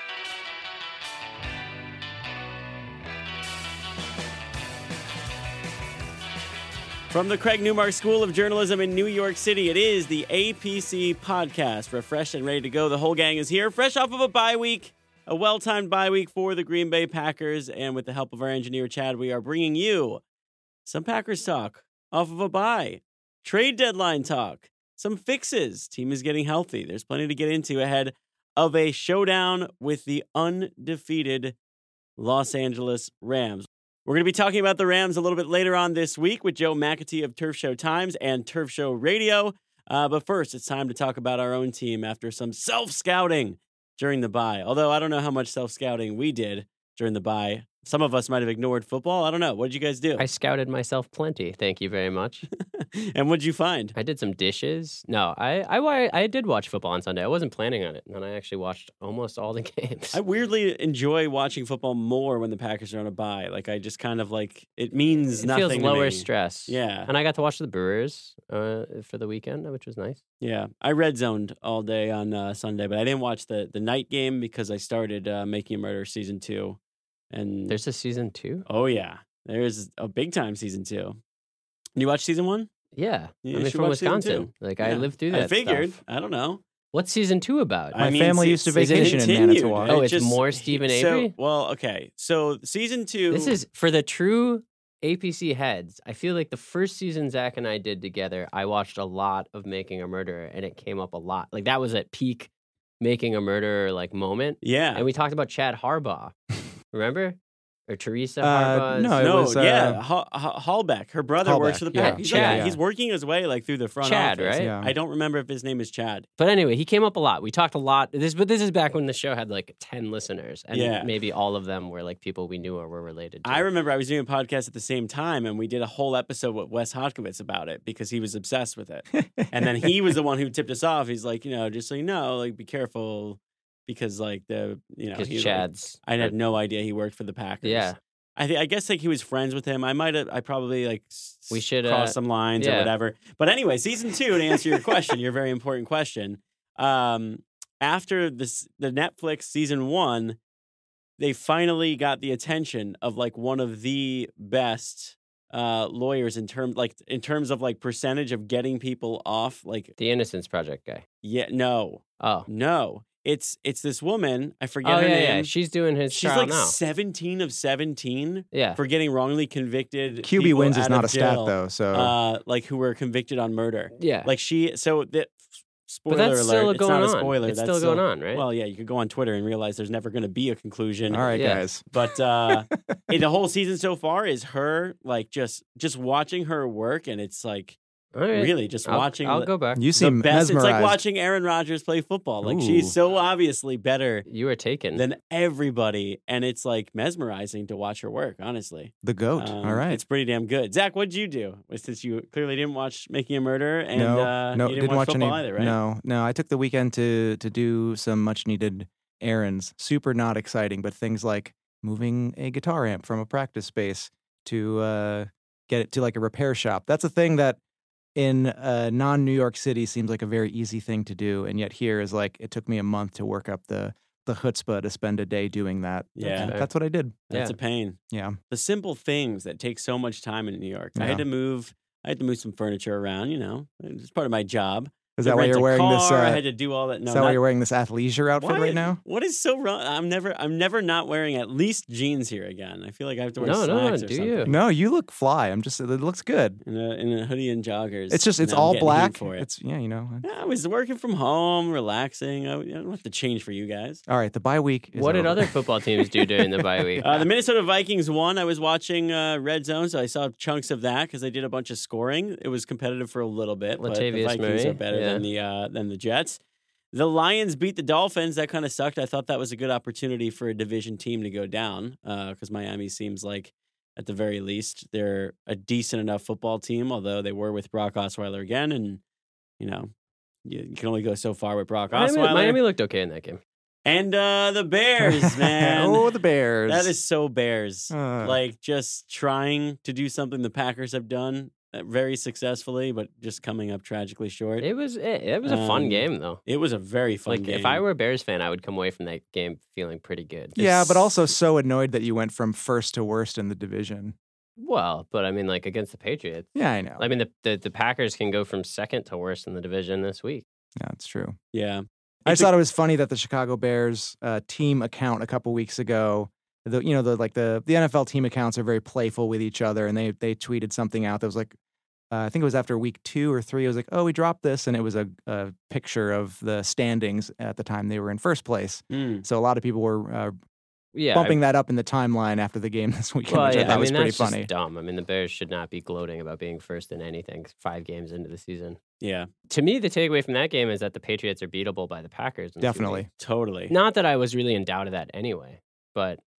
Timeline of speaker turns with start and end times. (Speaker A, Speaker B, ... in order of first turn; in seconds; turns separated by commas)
Speaker A: 7.1-20.2, Speaker A: 20.9-31.5, Speaker A: 32.2-50.2, Speaker B: 50.2-52.5, Speaker A: 52.7-53.9, Speaker B: 53.9-60.2, Speaker A: 60.1-67.1, Speaker B: 65.4-70.2, Speaker A: 70.4-76.8, Speaker A: 77.3-77.8, Speaker B: 77.7-78.6, Speaker A: 78.7-81.2, Speaker A: 82.0-82.7, Speaker B: 82.9-86.0, Speaker A: 83.4-86.6, Speaker B: 86.9-88.0, Speaker A: 87.9-93.6, Speaker C: 88.0-89.9, Speaker B: 88.7-89.2, Speaker B: 89.9-91.3, Speaker B: 93.3-102.5, Speaker B: 103.0-106.3, Speaker A: 104.6-105.0, Speaker B: 106.9-109.2, Speaker C: 108.4-110.0, Speaker A: 109.2-116.3, Speaker C: 111.4-112.8, Speaker B: 111.9-112.7, Speaker B: 114.0-114.7, Speaker C: 114.6-114.9, Speaker B: 116.4-123.7, Speaker A: 120.7-121.1, Speaker A: 123.4-150.4, Speaker C: 129.1-129.9, Speaker B: 135.1-136.3, Speaker B: 137.6-138.0, Speaker B: 141.5-142.9, Speaker A: 151.2-159.9, Speaker B: 160.0-161.1, Speaker A: 161.2-165.5, Speaker B: 162.2-162.5, Speaker B: 164.8-166.8, Speaker A: 166.1-181.4, Speaker B: 168.5-168.8, Speaker C: 170.2-172.1, Speaker B: 173.9-174.3, Speaker B: 176.1-178.4, Speaker C: 181.1-181.9, Speaker B: 181.3-181.6, Speaker A: 181.9-187.8, Speaker C: 182.5-183.1, Speaker B: 188.1-189.9, Speaker A: 188.3-194.2, Speaker C: 189.8-191.0, Speaker C: 192.4-192.9, Speaker B: 194.2-195.0, Speaker A: 194.9-205.8, Speaker C: 199.0-200.0, Speaker C: 203.9-217.6, Speaker C: 218.2-227.2, Speaker A: 226.2-226.5, Speaker B: 226.3-226.7, Speaker A: 227.3-228.0, Speaker C: 228.1-228.3, Speaker A: 228.5-237.4, Speaker C: 230.9-231.2, Speaker C: 235.2-236.4, Speaker C: 237.1-239.0, Speaker A: 238.3-244.5, Speaker B: 243.4-244.5, Speaker C: 244.4-246.6, Speaker A: 246.6-249.4, Speaker C: 248.1-250.2, Speaker A: 250.2-254.0, Speaker C: 254.1-255.5, Speaker B: 254.9-257.2, Speaker A: 257.0-266.4, Speaker B: 263.8-265.2, Speaker A: 266.9-279.0, Speaker A: 279.6-279.9, Speaker A: 280.4-282.6, Speaker B: 281.9-283.4, Speaker A: 283.8-286.0, Speaker C: 285.0-286.9, Speaker A: 286.7-294.6, Speaker C: 287.9-288.4, Speaker B: 294.6-296.4, Speaker A: 295.4-297.8, Speaker B: 297.3-301.1, Speaker C: 300.6-304.1, Speaker B: 304.6-310.4, Speaker C: 306.5-307.0, Speaker C: 310.8-311.4, Speaker A: 311.5-312.5, Speaker C: 312.2-321.5, Speaker C: 322.1-330.3, Speaker A: 328.9-329.2, Speaker B: 330.9-331.4, Speaker C: 331.1-334.5, Speaker B: 333.3-338.8, Speaker A: 333.5-333.8, Speaker A: 339.0-339.3, Speaker B: 339.5-343.0, Speaker C: 342.6-343.1, Speaker A: 343.2-343.7, Speaker B: 343.7-346.2